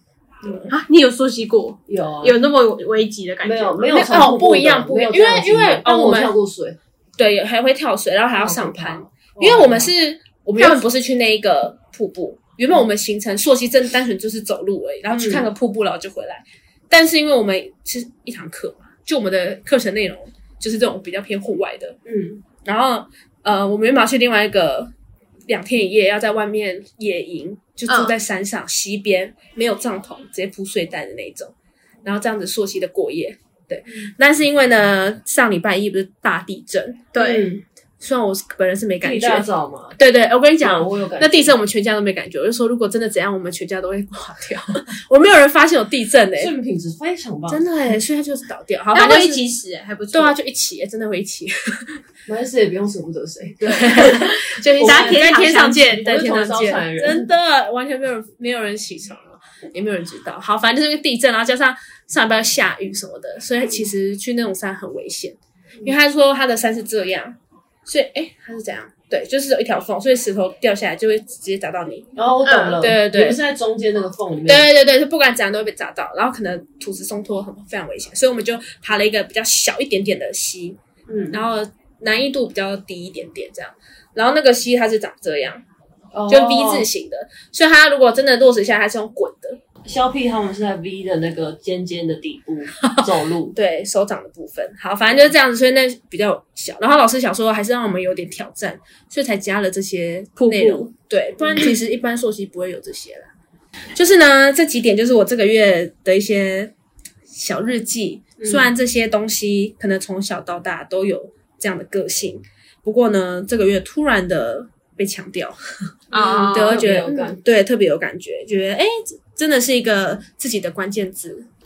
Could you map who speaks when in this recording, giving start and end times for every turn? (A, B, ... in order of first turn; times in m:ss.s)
0:00.4-0:00.7 A
0:00.7-0:04.3 B
0:01.9-0:02.4 C
0:03.4-0:06.8 C
0:04.0-0:06.3 A
0:07.2-0:22.0 A
0:08.4-0:09.9 C
0:15.1-0:15.4 C
0:22.0-0:22.4 C
0:22.6-0:24.9 A
0:25.5-0:31.5 A
0:27.9-0:28.1 B
0:32.0-0:37.1 A
0:37.1-0:37.5 B
0:37.2-0:37.6 C
0:38.0-0:46.5 A
0:39.0-0:40.0 C
0:40.6-0:41.6 C
0:46.4-0:47.6 C
0:47.5-0:49.4 A
0:48.9-0:50.3 B
0:50.1-0:52.0 A
0:52.3-0:55.2 C
0:53.6-1:12.1 A
0:54.8-0:56.2 B
0:56.0-0:57.3 C
1:12.1-1:14.7 C
1:12.4-1:12.8 B
1:12.8-1:13.4 A
1:14.4-1:20.8 A
1:21.1-1:21.4 C
1:21.3-1:25.6 A
1:26.1-1:26.9 C
1:26.3-1:29.6 A
1:29.8-1:33.5 C
1:32.8-1:43.3 A
1:40.4-1:40.9 B
1:43.9-1:46.7 A
1:47.3-1:55.6 A
1:48.4-1:48.7 C
1:56.1-1:56.8 B
1:56.1-1:57.4 C
1:56.5-2:01.5 A